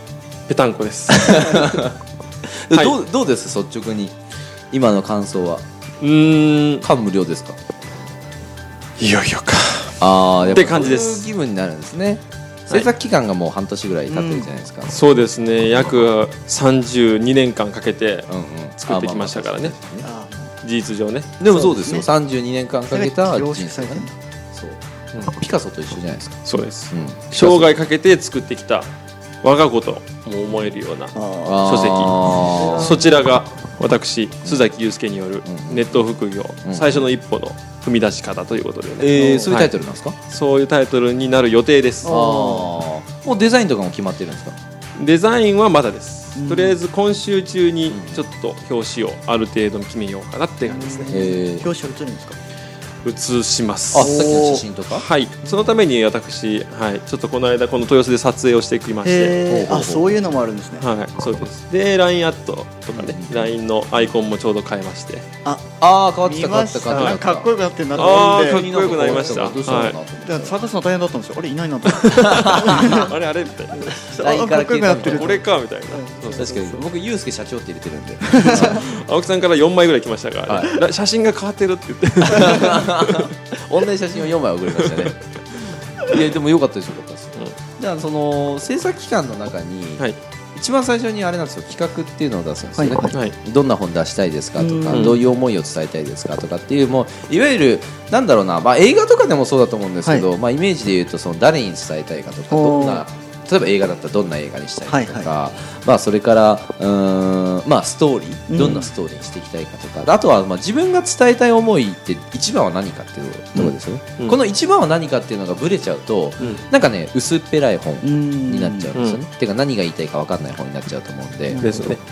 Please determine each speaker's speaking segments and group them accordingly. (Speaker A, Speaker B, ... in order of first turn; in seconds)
Speaker A: 0.5-1.9, 6.0-6.9, 9.0-11.3, 14.9-19.8, 20.6-21.4, 26.4-28.9, 29.4-39.7, 40.3-42.1, 45.0-51.3, 53.0-54.3, 54.9-59.4, 60.8-65.3, 66.9-67.2, 68.0-70.0, 71.9-74.3, 75.0-76.5, 78.4-83.3, 84.7-85.1, 94.9-95.2, 113.6-114.4, 119.0-119.2, 121.6-122.0
Speaker B: 1.1-1.9, 2.5-4.2, 4.7-5.6, 6.8-7.6, 10.0-15.0, 18.3-20.1, 21.4-27.8, 31.4-33.0, 34.5-34.7, 35.4-36.0, 36.6-37.1, 39.0-40.2, 42.1-44.6, 47.9-48.2, 51.1-51.7, 53.9-55.1, 59.5-60.3, 63.0-63.6, 65.8-70.6, 72.0-73.1, 74.1-75.3, 76.4-78.9, 80.5-80.8, 82.2-85.2, 86.0-122.0
Speaker C: 14.1-14.5, 20.0-20.5, 21.5-22.1, 22.9-24.1, 31.1-33.3, 39.1-39.6, 42.0-42.7, 46.4-46.8, 50.6-52.4, 54.0-54.6, 59.0-60.9, 65.5-65.7, 66.2-69.5, 70.2-73.2, 73.7-76.8, 78.3-78.9, 92.8-93.2, 94.6-95.2, 102.5-103.0, 104.9-105.3, 108.5-108.9, 116.4-116.6, 118.0-118.9, 121.5-122.0